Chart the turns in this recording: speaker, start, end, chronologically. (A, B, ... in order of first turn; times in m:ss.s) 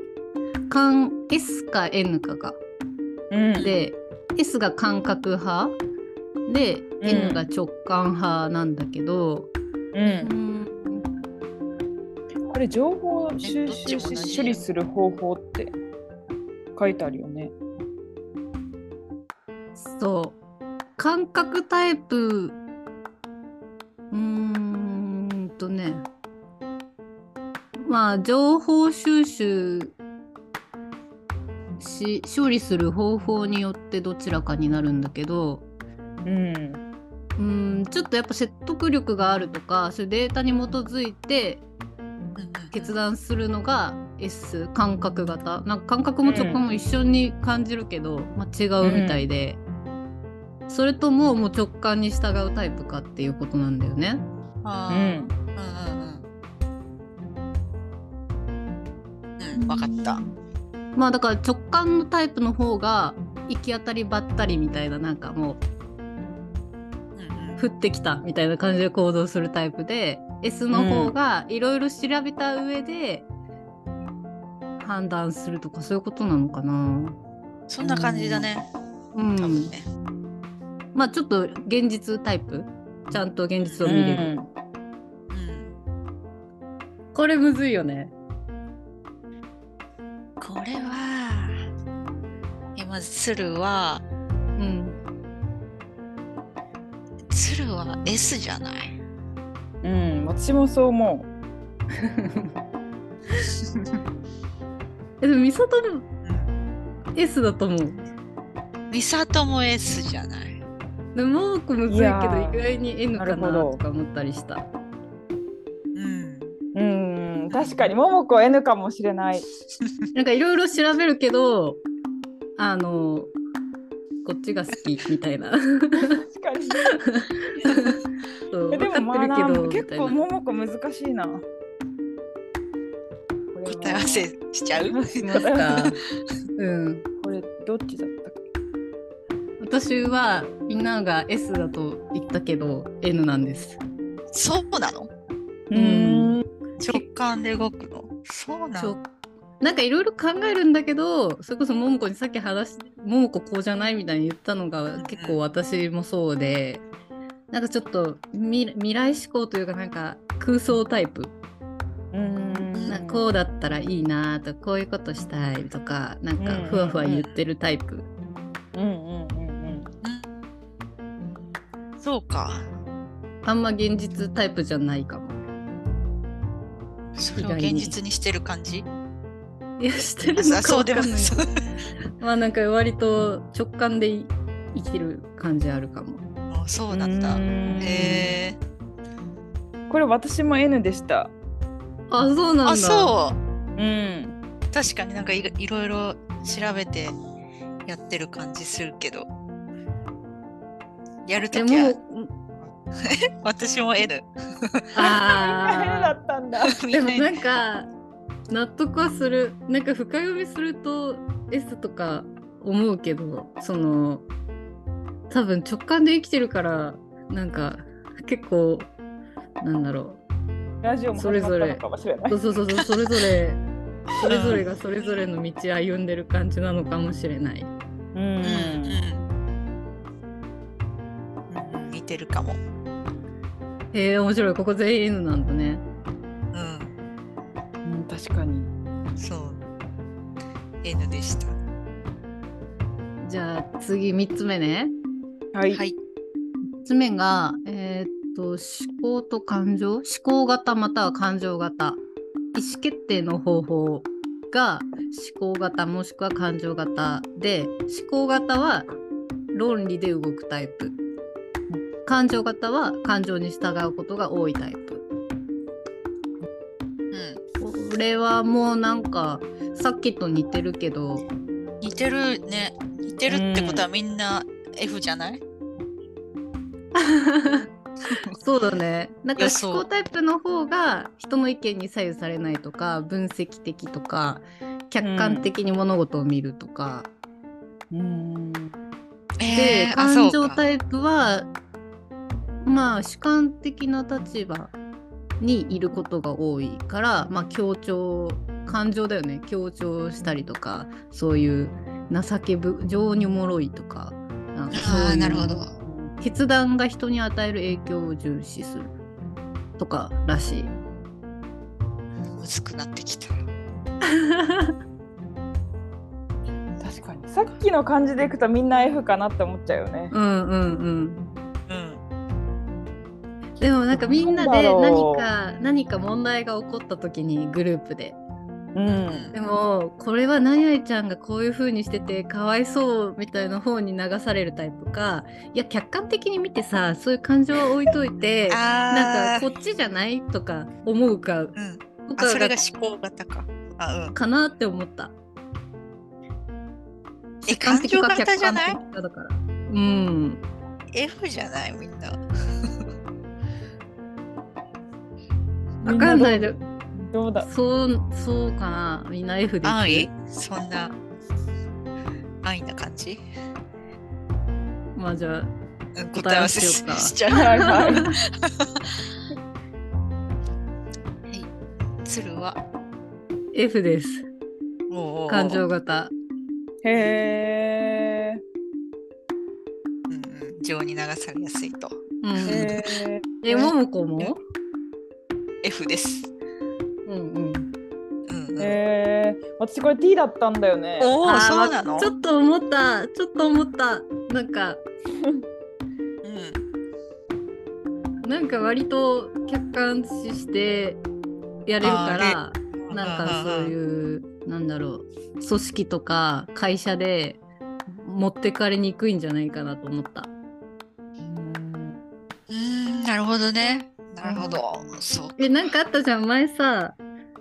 0:00.7-0:02.6 A
0:03.3-0:03.7 B
0:03.6-0:05.8 A
0:06.5-0:09.5 A
0:07.0-0:07.5 B
0:09.9-0:10.3 B
0:10.2-0:11.1 A
0:12.5-0:15.8 B
0:13.4-0:14.6 C
0:16.8-0:17.5 B
0:19.8-0:20.4 A
0:21.0-0:22.6 A
0:24.1-0:26.1 A
0:27.8-0:30.0 A
0:31.8-0:35.6 A
0:36.2-0:36.8 B
0:37.4-0:41.6 A
0:42.4-0:43.0 C
0:42.7-0:49.6 A
0:46.2-0:46.6 B
0:48.8-0:49.2 B
0:50.7-0:54.2 A
0:54.6-0:56.2 C
0:54.9-0:55.3 B
0:59.4-1:00.2 C
0:59.6-1:00.1 A
1:01.0-1:05.6 A
1:07.2-1:07.6 C
1:07.6-1:13.3 A
1:10.7-1:11.1 B
1:14.8-1:17.2 A
1:17.7-1:18.7 C
1:17.8-1:18.5 A
1:19.1-1:19.7 A
1:19.4-1:19.9 C
1:20.9-1:24.3 A
1:23.6-1:24.0 C
1:23.8-1:24.5 B
1:25.3-1:25.7 C
1:27.1-1:28.1 A
1:30.4-1:31.6 C
1:32.8-1:34.0 C
1:34.6-1:35.0 A
1:37.3-1:39.0 C
1:39.8-1:41.3 B
1:42.0-1:42.5 A
1:45.2-1:46.1 A
1:46.2-1:46.5 C
1:47.2-1:48.1 A
1:48.9-1:50.6 C
1:51.2-1:54.7 A
1:51.9-1:52.6 B
1:53.2-1:53.8 B
1:56.0-1:56.6 C
1:56.8-1:59.5 B
1:57.5-1:57.8 C
2:00.1-2:01.8 A
2:02.6-2:03.3 A
2:04.2-2:06.2 A
2:06.2-2:07.0 B
2:07.0-2:08.0 A
2:08.5-2:10.2 A
2:08.7-2:11.4 B
2:13.5-2:15.9 B
2:13.6-2:15.4 C
2:15.2-2:16.0 A
2:16.6-2:17.0 A
2:17.2-2:18.4 B
2:19.6-2:23.8 A
2:24.3-2:25.1 C
2:25.7-2:26.4 B
2:25.7-2:27.0 A
2:26.8-2:29.0 C
2:28.8-2:29.0 A
2:29.6-2:36.8 A
2:35.0-2:35.4 C
2:37.5-2:41.3 A
2:42.1-2:43.2 B
2:42.9-2:48.1 A
2:46.4-2:47.3 B
2:48.7-2:49.9 B
2:50.0-2:50.3 C
2:52.0-2:52.7 C
2:53.4-2:55.4 A
2:57.2-2:58.9 C
2:57.4-2:58.0 A
2:59.8-3:01.4 A
3:00.4-3:01.5 C
3:02.2-3:06.2 A
3:06.5-3:08.6 C
3:06.9-3:08.4 B
3:09.9-3:11.3 B
3:12.1-3:13.1 A
3:12.6-3:13.4 C
3:13.8-3:14.4 B
3:14.7-3:17.2 C
3:17.8-3:19.3 C
3:21.2-3:22.0 C
3:21.5-3:22.3 A
3:23.0-3:24.8 C
3:24.9-3:26.1 A
3:25.0-3:26.8 B
3:26.7-3:27.3 C
3:26.9-3:27.9 A
3:28.5-3:34.3 A
3:35.3-3:38.9 A
3:39.6-3:40.2 A
3:40.8-3:42.4 B
3:41.2-3:43.6 A
3:44.2-3:47.7 A
3:44.3-3:44.6 C
3:48.1-3:49.0 B
3:48.4-3:49.3 C
3:51.5-3:52.6 C
3:53.9-3:55.8 A
3:56.5-3:56.9 C
3:57.8-3:58.7 B
3:59.2-3:59.6 C
4:00.8-4:01.6 C
4:03.2-4:04.9 A
4:05.5-4:05.8 B
4:05.7-4:06.0 C
4:06.8-4:12.0 A
4:12.5-4:18.9 A
4:19.5-4:21.0 A
4:22.1-4:25.0 A
4:27.1-4:27.4 C
4:27.6-4:31.3 A
4:31.8-4:35.4 C
4:33.3-4:33.8 B
4:37.0-4:37.7 A
4:38.1-4:38.4 C
4:38.4-4:47.1 A
4:39.4-4:39.9 C
4:45.0-4:45.5 B
4:47.9-4:48.7 B
4:49.4-4:50.6 C
4:49.5-4:51.5 A
4:52.6-4:54.8 A
4:55.4-5:05.7 A
5:04.7-5:05.7 C
5:06.2-5:08.9 A
5:09.8-5:10.7 A
5:12.4-5:13.4 C
5:14.1-5:14.7 A
5:16.8-5:20.1 B
5:20.1-5:21.2 A
5:21.7-5:22.0 C
5:23.6-5:28.2 A
5:23.9-5:25.3 B
5:28.8-5:29.3 B
5:28.9-5:29.3 C
5:29.3-5:42.6 A
5:38.5-5:39.5 C
5:41.6-5:44.2 C
5:44.2-5:45.1 A
5:47.4-5:50.4 A
5:47.5-5:48.8 C
5:50.9-5:52.9 C
5:55.8-5:57.5 B
5:55.8-5:56.6 A
5:57.4-6:00.1 A
5:59.6-6:01.0 C
6:02.4-6:03.2 C
6:05.0-6:05.5 A
6:06.0-6:09.0 C
6:06.1-6:08.1 A
6:07.3-6:08.0 B
6:11.3-6:12.6 C
6:13.5-6:14.3 A
6:14.9-6:15.6 C
6:15.3-6:16.1 A
6:16.8-6:18.4 B
6:20.1-6:22.8 C
6:22.2-6:22.8 A
6:22.4-6:23.7 B
6:23.4-6:24.4 A
6:25.6-6:26.3 C
6:27.1-6:27.7 A
6:28.3-6:28.8 C
6:28.6-6:31.1 B
6:31.0-6:32.1 C
6:31.2-6:34.8 A
6:36.2-6:36.6 C
6:38.2-6:41.0 A
6:41.7-6:50.3 A
6:41.8-6:43.8 C
6:51.2-6:52.0 B
6:52.5-6:55.5 C
6:54.3-6:54.6 B
6:55.4-6:57.0 A